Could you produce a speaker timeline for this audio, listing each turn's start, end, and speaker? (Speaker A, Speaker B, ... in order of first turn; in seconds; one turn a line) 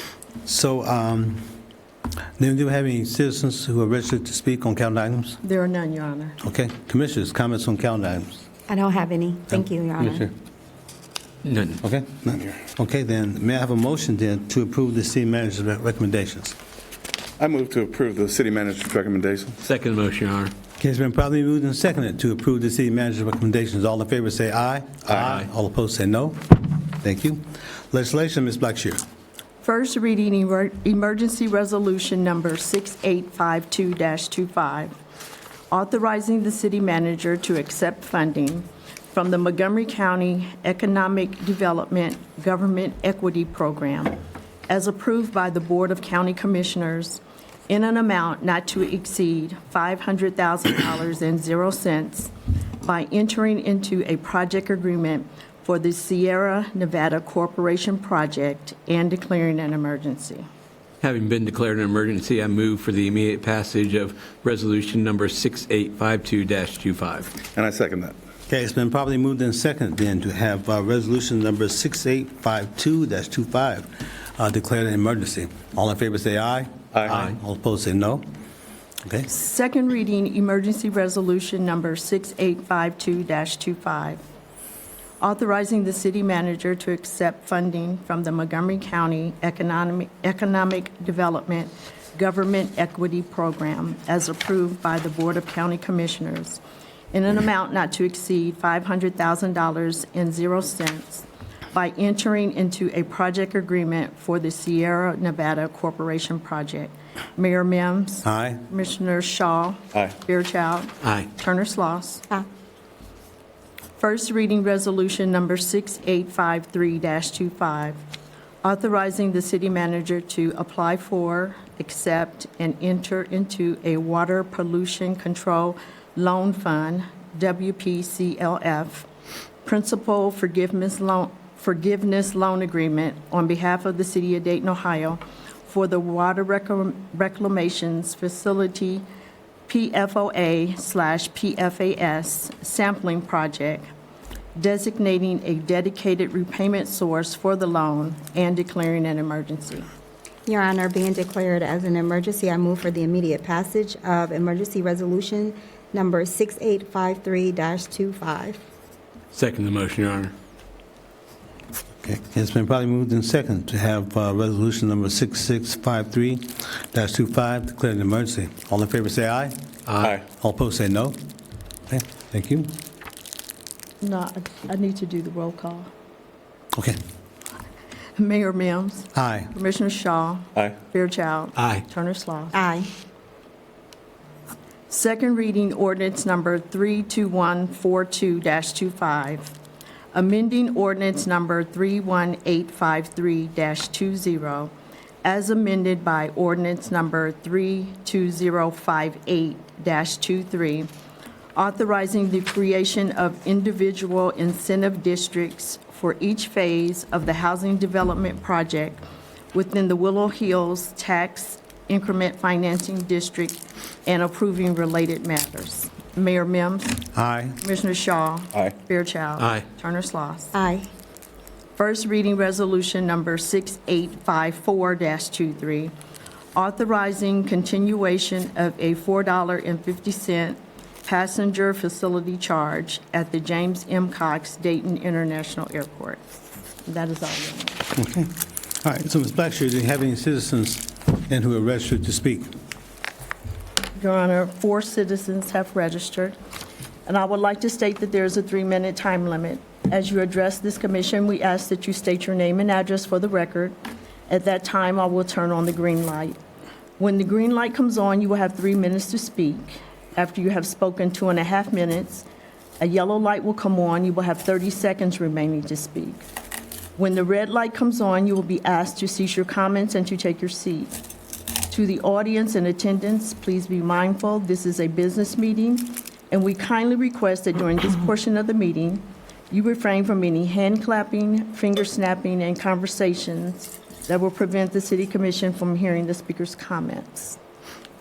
Speaker A: 0.5-1.4
Speaker A: 2.4-5.4
Speaker B: 5.4-6.4
Speaker A: 6.4-8.4
Speaker C: 8.7-10.3
Speaker A: 9.5-10.3
Speaker D: 11.4-11.8
Speaker A: 11.8-16.6
Speaker E: 17.4-19.6
Speaker D: 19.6-20.5
Speaker A: 20.8-29.0
Speaker B: 29.6-34.9
Speaker B: 35.7-44.2
Speaker B: 44.7-52.3
Speaker B: 52.8-60.5
Speaker D: 61.0-67.3
Speaker E: 67.5-68.2
Speaker A: 68.5-78.2
Speaker E: 76.9-77.2
Speaker B: 79.3-84.2
Speaker B: 85.2-96.6
Speaker B: 97.1-112.2
Speaker A: 108.2-108.6
Speaker D: 111.0-111.3
Speaker B: 114.0-118.0
Speaker B: 118.6-129.1
Speaker B: 129.7-139.1
Speaker B: 139.7-143.9
Speaker B: 144.6-149.9
Speaker C: 150.5-158.6
Speaker D: 159.3-160.3
Speaker A: 162.0-169.6
Speaker D: 169.9-170.2
Speaker A: 170.3-171.2
Speaker A: 171.9-172.7
Speaker B: 174.0-175.9
Speaker B: 178.2-182.6
Speaker A: 179.2-179.5
Speaker D: 181.6-181.8
Speaker C: 182.5-182.9
Speaker B: 184.9-189.5
Speaker B: 190.1-194.7
Speaker B: 195.2-200.9
Speaker B: 201.6-209.0
Speaker B: 209.5-217.1
Speaker A: 217.1-217.6
Speaker B: 217.6-220.6
Speaker D: 219.4-219.7
Speaker C: 220.5-220.9
Speaker B: 221.8-225.9
Speaker B: 226.6-236.3
Speaker B: 236.8-237.8
Speaker A: 237.9-242.5
Speaker B: 244.0-246.4
Speaker B: 247.1-253.8
Speaker B: 254.3-256.4
Speaker B: 257.0-262.3
Speaker B: 262.8-266.3
Speaker B: 267.0-270.9
Speaker B: 271.7-287.4